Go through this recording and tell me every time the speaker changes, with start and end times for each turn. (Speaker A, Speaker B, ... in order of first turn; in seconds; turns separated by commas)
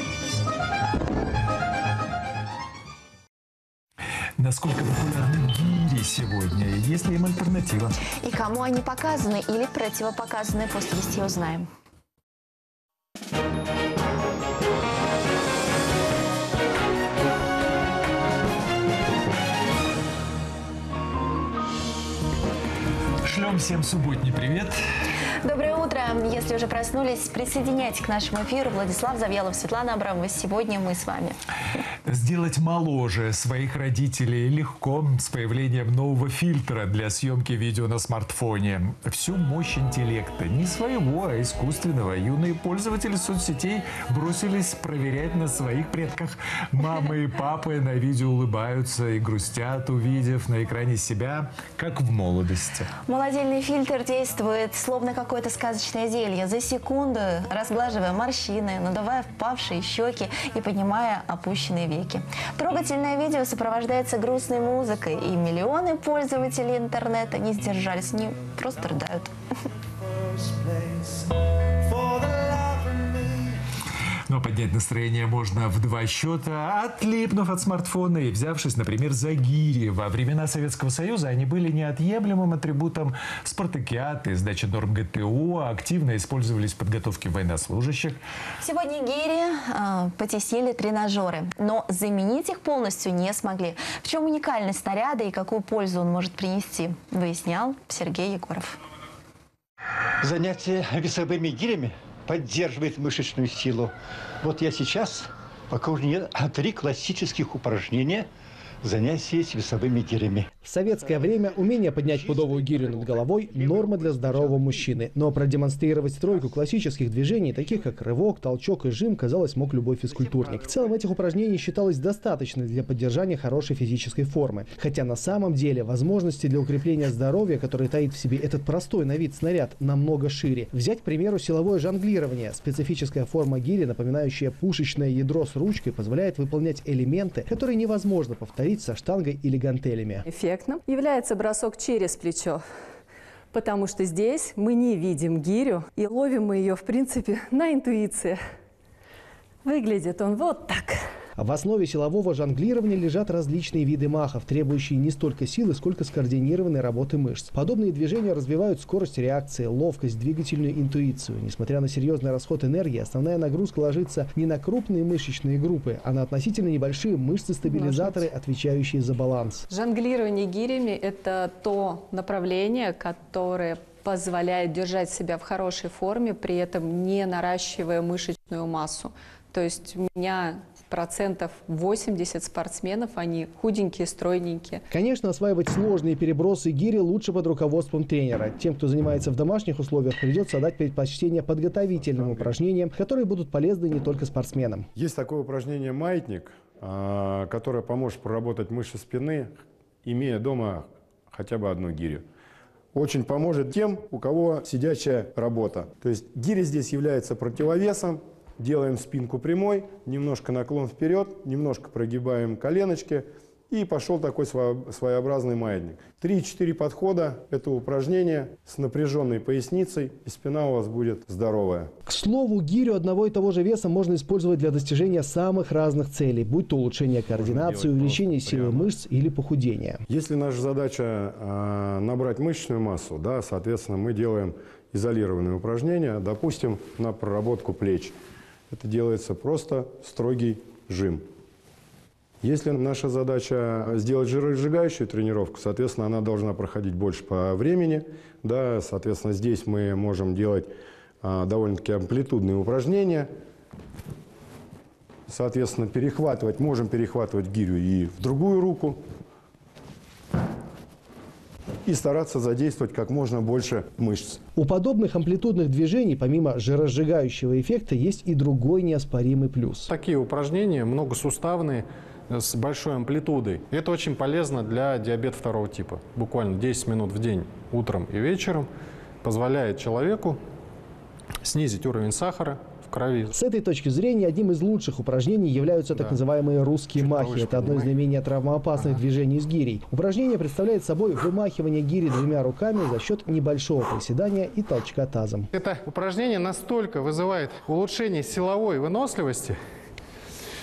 Speaker A: 4.4-8.0, Speaker B: 8.2-11.7, Speaker A: 23.2-24.8, Speaker B: 25.4-31.4, Speaker A: 32.0-52.9, Speaker B: 53.0-69.3, Speaker C: 71.9-73.0, Speaker A: 74.3-88.2, Speaker B: 88.6-98.8, Speaker C: 100.2-108.3, Speaker C: 108.8-110.5, Speaker D: 110.6-140.2, Speaker C: 111.1-114.9, Speaker E: 140.3-142.6, Speaker E: 143.5-148.4, Speaker E: 149.6-151.0, Speaker D: 151.4-169.7, Speaker E: 167.7-168.2, Speaker E: 169.7-184.8, Speaker D: 184.9-194.9, Speaker F: 191.9-192.6, Speaker F: 194.9-202.2, Speaker F: 202.9-221.9, Speaker D: 222.1-230.0, Speaker F: 227.3-228.9, Speaker F: 230.1-238.1, Speaker F: 238.7-241.2, Speaker F: 242.4-250.7, Speaker F: 251.2-253.3, Speaker F: 255.3-259.0, Speaker F: 261.8-264.4, Speaker D: 264.6-269.9, Speaker G: 269.9-278.7, Speaker G: 279.2-280.4, Speaker G: 281.4-283.3, Speaker D: 283.3-295.5, Speaker G: 286.9-287.9, Speaker G: 295.5-299.6